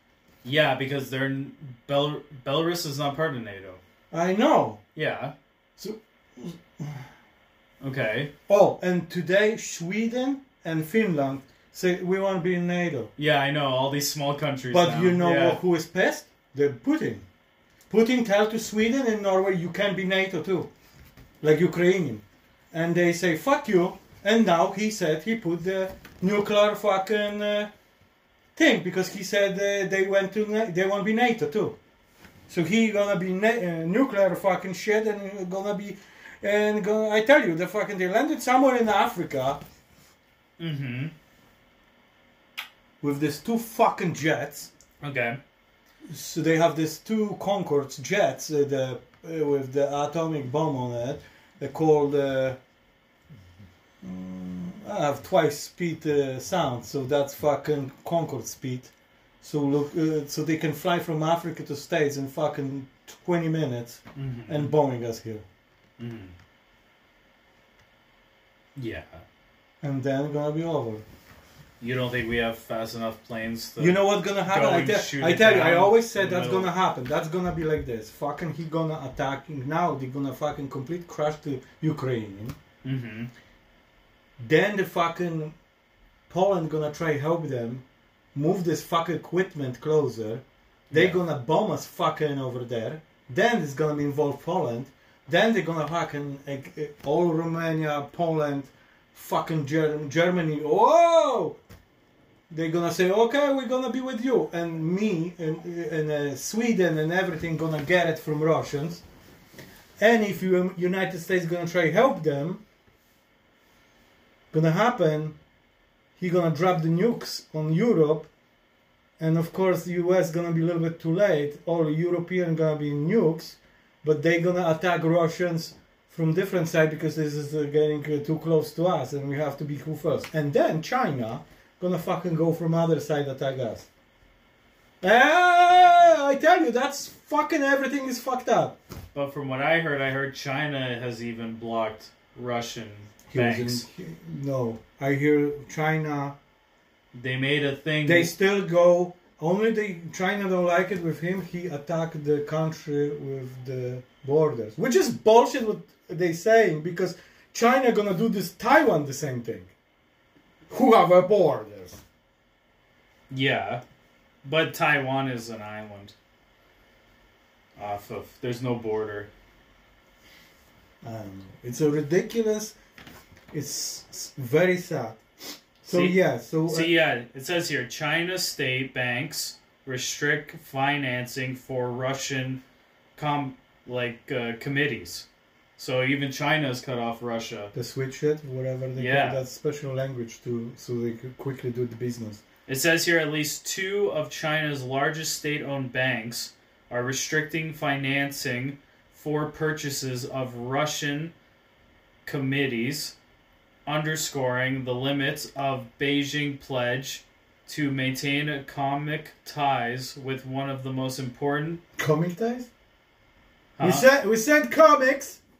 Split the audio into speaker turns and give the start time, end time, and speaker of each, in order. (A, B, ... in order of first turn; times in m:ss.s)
0:00.4-0:03.8 A
0:04.1-0:04.8 B
0:05.0-0:05.3 A
0:05.8-0:07.1 B
0:07.8-0:08.3 A
0:08.5-0:13.1 B
0:13.2-0:15.6 A
0:14.7-0:17.3 B
0:17.9-0:20.7 B
0:21.4-0:27.7 B
0:28.6-0:31.8 B
0:32.5-0:39.6 B
0:40.6-0:41.1 A
0:43.0-0:44.7 B
0:45.0-0:45.4 A
0:46.0-0:52.6 B
0:54.0-1:05.4 B
1:04.2-1:04.7 A
1:06.0-1:06.3 A
1:08.8-1:09.2 A
1:09.8-1:11.0 B
1:11.8-1:16.7 A
1:13.8-1:22.6 B
1:22.8-1:23.3 A
1:24.4-1:25.6 B
1:26.3-1:41.6 B
1:30.9-1:31.2 A
1:42.5-1:49.0 B
1:50.0-1:52.6 B
1:54.5-1:55.4 B
1:56.2-1:58.3 B
1:59.2-2:13.9 B
2:15.0-2:18.8 B
2:19.1-2:23.8 A
2:23.3-2:26.4 B
2:27.1-2:28.3 A
2:28.0-2:39.7 B
2:40.7-2:42.0 B
2:43.3-2:43.8 A
2:44.4-2:46.1 A
2:47.8-2:49.3 A
2:51.0-2:52.7 B
2:53.5-2:56.9 B
2:55.9-3:02.6 A
3:03.2-3:05.3 A
3:05.8-3:07.7 A
3:07.7-3:12.4 B
3:09.0-3:09.4 A
3:12.7-3:21.3 A
3:22.2-3:23.1 A
3:23.8-3:31.8 A
3:32.0-3:32.7 B
3:33.8-3:34.0 A
3:33.8-3:35.4 B